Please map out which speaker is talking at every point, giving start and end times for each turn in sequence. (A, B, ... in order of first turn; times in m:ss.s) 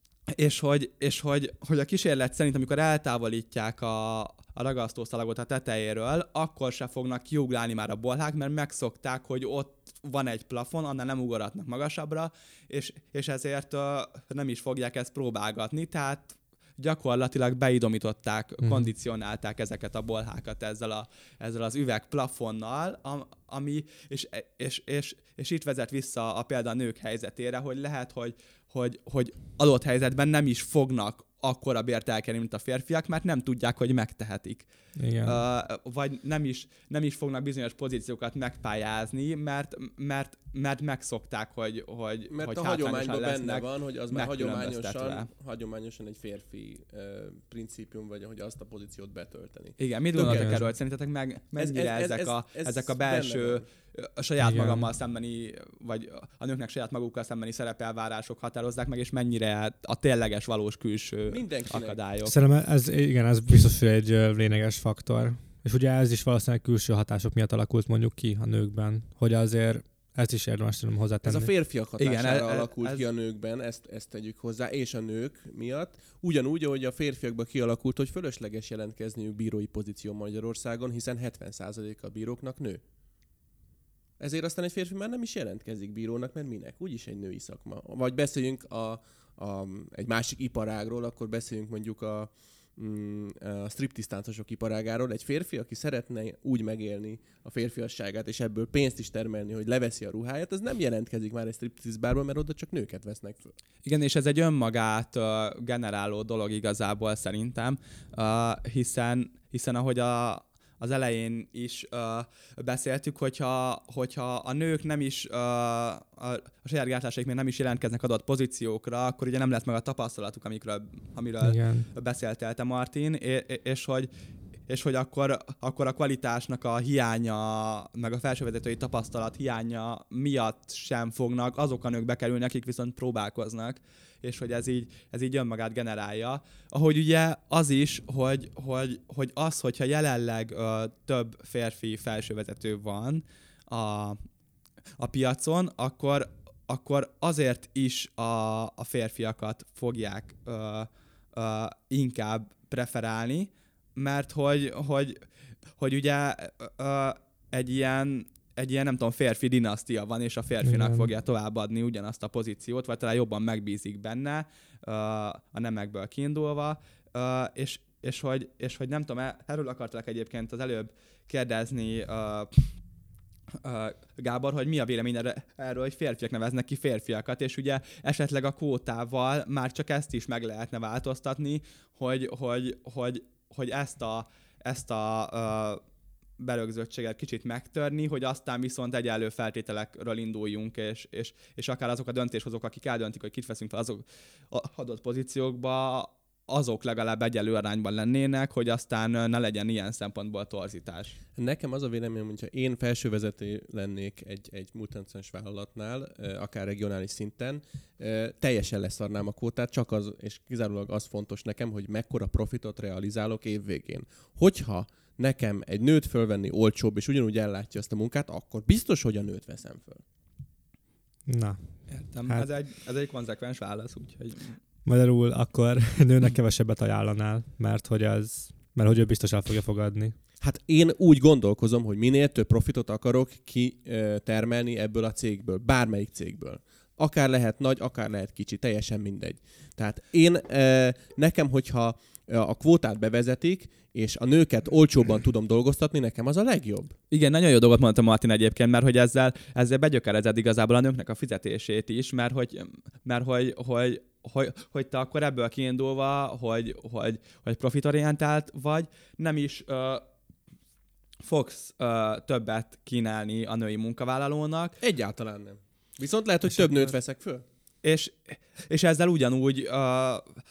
0:00.3-0:34.7 A
0:35.0-0:35.4 B
0:35.2-0:45.3 A
0:42.3-0:50.6 C
0:49.8-1:02.4 A
0:50.2-0:50.6 B
0:51.6-0:53.6 C
0:54.4-0:54.9 B
1:01.3-1:02.0 C
1:02.2-1:11.5 B
1:11.2-1:22.8 C
1:12.0-1:13.0 A
1:24.2-1:43.6 C
1:43.8-2:04.1 A
2:01.4-2:01.9 B
2:04.7-2:24.2 A
2:25.0-2:35.2 A
2:35.8-2:52.7 A
2:40.6-2:41.1 B
2:53.6-3:05.8 A
3:06.4-3:21.2 A
3:21.3-3:40.0 C
3:41.3-3:41.7 B
3:41.9-3:44.6 A
3:44.8-3:50.2 B
3:50.4-4:06.9 C
4:07.1-4:20.0 A
4:21.2-4:24.8 A
4:24.8-4:27.4 C
4:27.8-4:30.3 A